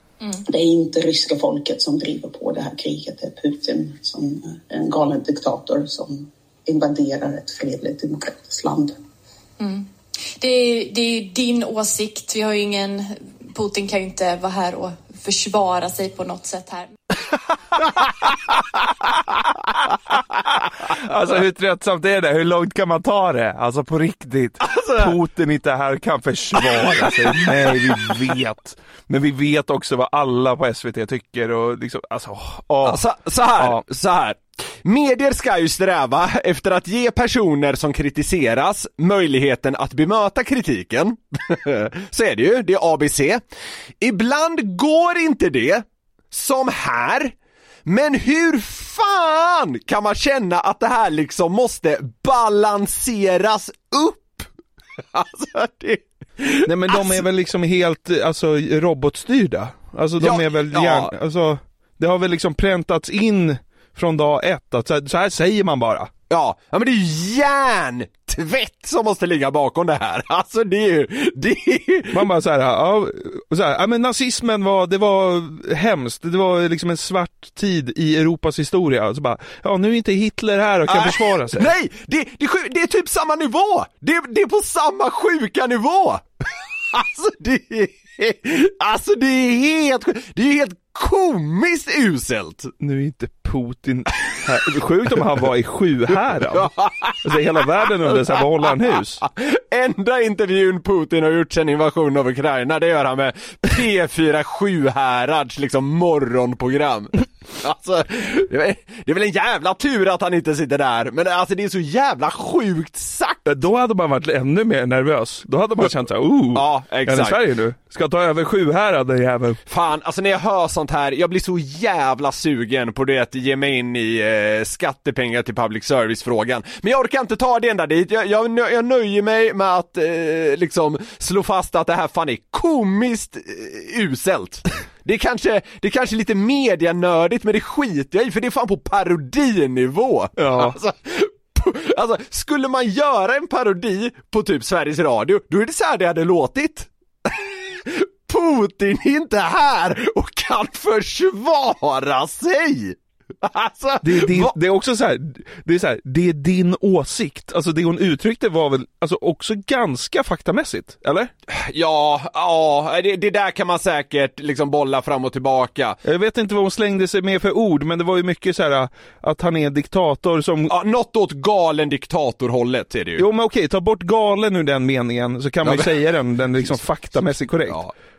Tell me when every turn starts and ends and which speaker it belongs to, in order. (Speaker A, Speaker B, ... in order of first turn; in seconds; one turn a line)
Speaker A: 0.5-8.9
Speaker B: 9.6-16.9
Speaker C: 20.9-33.0
Speaker D: 24.6-25.1
Speaker D: 26.7-27.2
Speaker D: 32.8-43.4
Speaker C: 33.5-33.8
Speaker D: 44.0-47.3
Speaker D: 47.9-54.5
Speaker D: 55.1-57.2
Speaker C: 56.6-66.1
Speaker D: 60.2-61.1
Speaker D: 66.3-72.2
Speaker C: 72.1-81.7
Speaker D: 80.9-86.2
Speaker D: 86.9-92.7
Speaker C: 92.8-96.7
Speaker D: 96.5-97.2
Speaker C: 97.2-99.2
Speaker D: 99.3-113.4
Speaker C: 113.5-119.6
Speaker D: 116.5-117.4
Speaker D: 119.7-154.5
Speaker C: 140.4-140.8
Speaker C: 154.0-161.3
Speaker D: 161.5-166.0
Speaker C: 166.0-170.7
Speaker D: 170.7-173.2
Speaker C: 173.2-177.8
Speaker D: 175.6-175.9